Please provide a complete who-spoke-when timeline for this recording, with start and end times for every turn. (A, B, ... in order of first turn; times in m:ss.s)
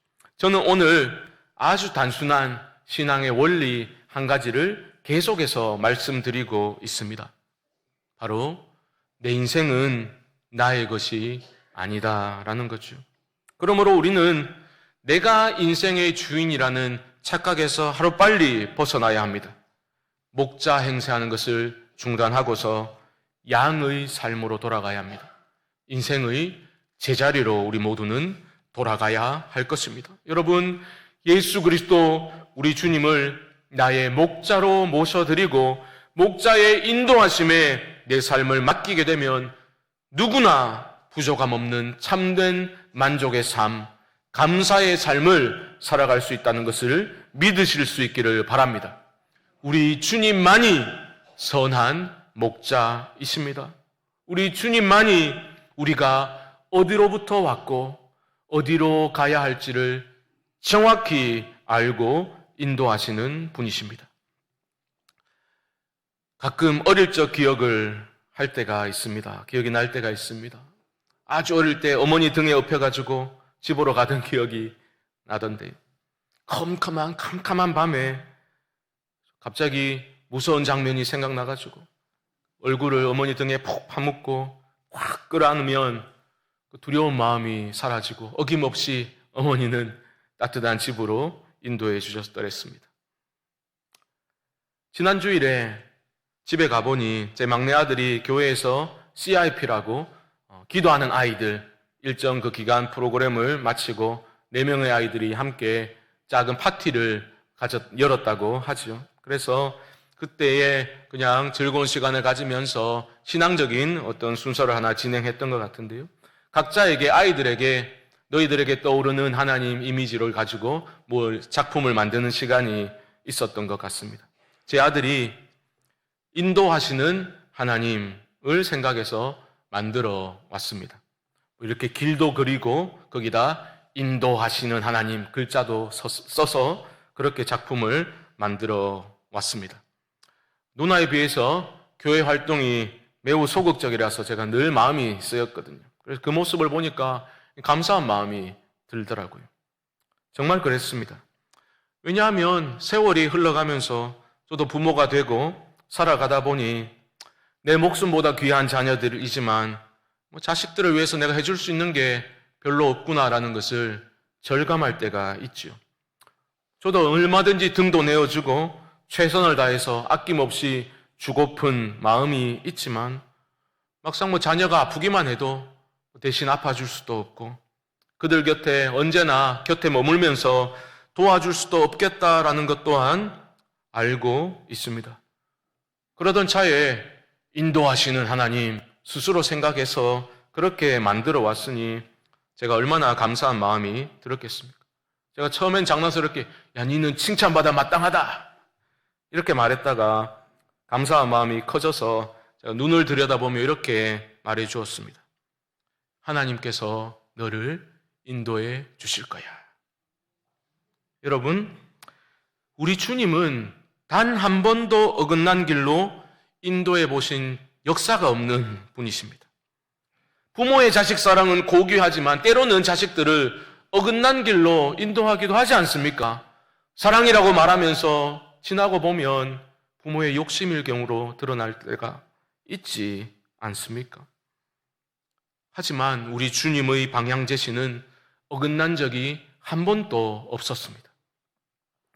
0:00.4-0:07.3 A
0:08.2-0:08.6 A
0:09.2-0:13.0 A
0:13.6-0:19.6 A
0:20.3-0:25.3 A
0:25.9-0:39.5 A
0:40.1-0:49.0 A
0:49.6-0:53.7 A
0:54.3-1:04.1 A
1:06.4-1:10.7 A
1:11.3-1:15.8 A
1:16.5-1:18.3 A
1:19.4-1:21.9 A
1:22.6-1:26.1 A
1:26.7-1:32.9 A
1:34.9-1:35.9 A
1:36.4-1:40.1 A
1:40.7-2:05.4 A
2:06.3-2:11.0 A
2:11.6-2:19.8 A
2:20.8-2:29.5 A
2:30.3-2:31.2 A
2:32.0-2:36.9 A
2:37.6-2:39.8 A
2:40.3-2:45.8 A
2:46.8-2:53.2 A
2:54.0-2:57.6 A
2:58.2-3:03.4 A
3:03.9-3:05.2 A
3:06.2-3:12.1 A
3:12.6-3:14.8 A
3:15.4-3:18.5 A
3:19.3-3:25.2 A
3:26.2-3:29.6 A
3:31.2-3:31.8 A
3:32.8-3:39.4 A
3:40.5-3:46.4 A
3:47.0-3:54.3 A
3:55.7-4:01.1 A